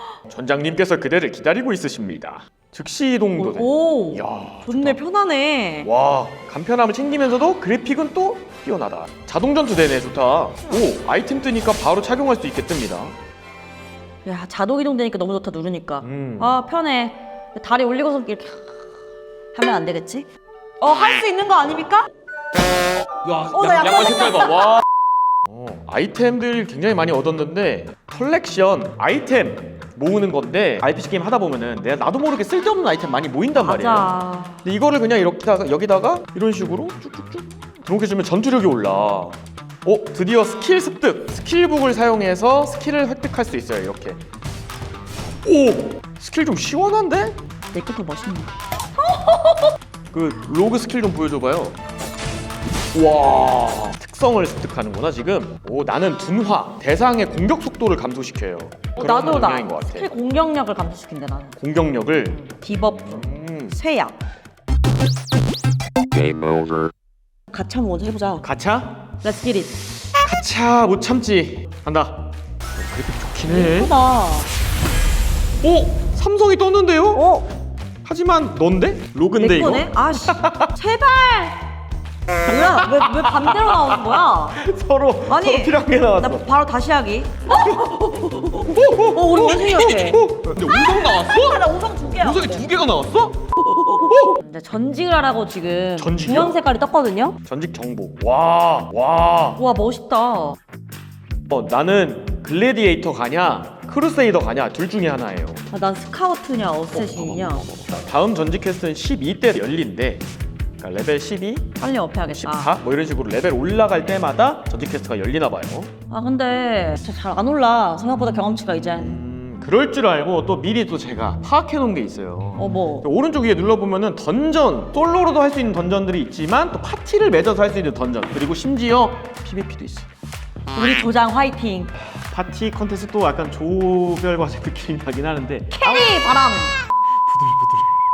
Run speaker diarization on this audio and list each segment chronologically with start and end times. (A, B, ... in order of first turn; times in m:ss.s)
0:00.3-0:05.0 A
0:03.4-0:05.9 B
0:05.8-0:13.2 A
0:14.2-0:18.8 B
0:16.0-0:16.6 A
0:19.5-0:20.3 B
0:20.8-0:22.1 B
0:23.1-0:24.8 A
0:23.5-0:24.8 B
0:25.5-0:34.1 A
0:33.6-0:34.6 B
0:34.6-0:44.2 A
0:45.4-0:47.4 A
0:47.7-0:48.5 B
0:49.1-0:49.6 B
0:50.1-0:51.8 A
0:52.9-1:00.1 A
0:59.0-1:01.6 B
1:01.6-1:02.5 A
1:02.3-1:04.2 B
1:03.0-1:03.8 A
1:07.5-1:08.4 B
1:08.4-1:09.2 A
1:09.2-1:09.8 B
1:10.2-1:13.9 A
1:13.5-1:14.5 B
1:15.6-1:17.3 A
1:17.1-1:17.5 B
1:18.0-1:20.7 A
1:19.4-1:21.6 B
1:22.4-1:24.6 B
1:22.9-1:23.8 A
1:24.6-1:26.4 A
1:25.3-1:32.7 B
1:27.6-1:34.4 A
1:34.3-1:37.4 B
1:36.0-1:36.6 A
1:37.4-1:39.6 A
1:39.6-1:40.6 B
1:41.5-1:45.6 A
1:45.7-1:47.7 B
1:46.9-1:50.2 A
1:50.8-1:51.8 A
1:51.8-1:52.7 B
1:52.3-1:55.9 A
1:56.1-1:59.2 B
1:59.0-2:10.1 A
2:02.6-2:03.1 B
2:10.7-2:11.9 B
2:12.2-2:16.2 A
2:15.7-2:16.8 B
2:17.3-2:17.9 A